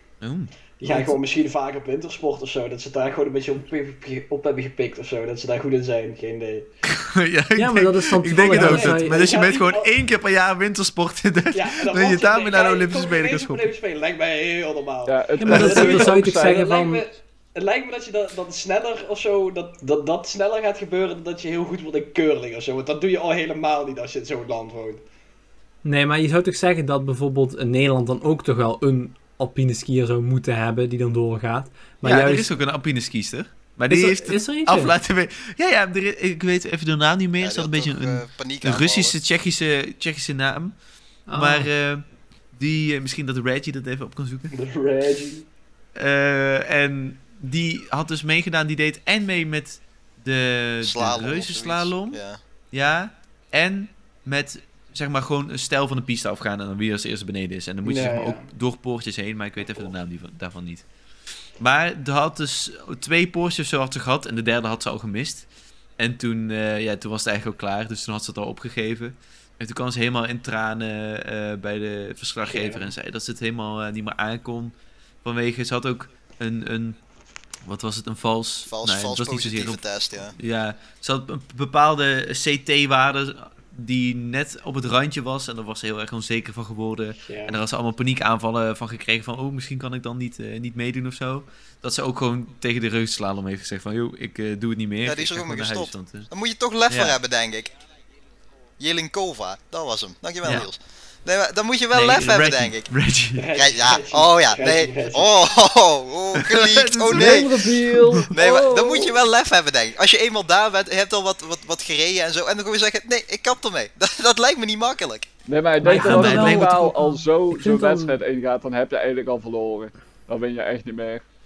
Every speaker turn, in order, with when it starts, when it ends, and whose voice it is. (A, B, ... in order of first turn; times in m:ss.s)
0:00.2-0:00.5 A
0:00.8-0:06.7 B
0:00.8-0:01.2 C
0:06.8-0:13.7 A
0:07.6-0:09.2 C
0:08.4-0:09.9 B
0:11.5-0:25.0 B
0:15.1-0:16.6 D
0:15.4-0:17.0 C
0:15.5-0:15.8 A
0:25.8-0:32.5 C
0:32.0-0:40.7 A
0:33.9-0:34.9 C
0:37.4-0:39.2 E
0:41.3-0:41.7 C
0:41.3-0:44.5 A
0:44.5-0:45.5 B
0:46.0-0:52.2 A
0:50.8-0:52.4 E
0:52.7-1:00.8 A
0:57.8-0:58.5 B
1:01.6-1:05.4 A
1:06.0-1:17.0 A
1:12.4-1:12.9 B
1:17.6-1:36.3 A
1:18.7-1:20.4 E
1:27.3-1:27.6 B
1:35.0-1:37.7 E
1:36.9-1:37.2 A
1:38.8-1:42.9 E
1:41.9-1:43.5 A
1:43.4-1:45.3 B
1:43.5-1:47.7 E
1:46.3-1:48.2 A
1:47.1-1:49.2 D
1:48.3-1:55.3 E
1:55.5-2:01.2 D
1:55.8-1:58.2 C
1:55.8-1:56.8 A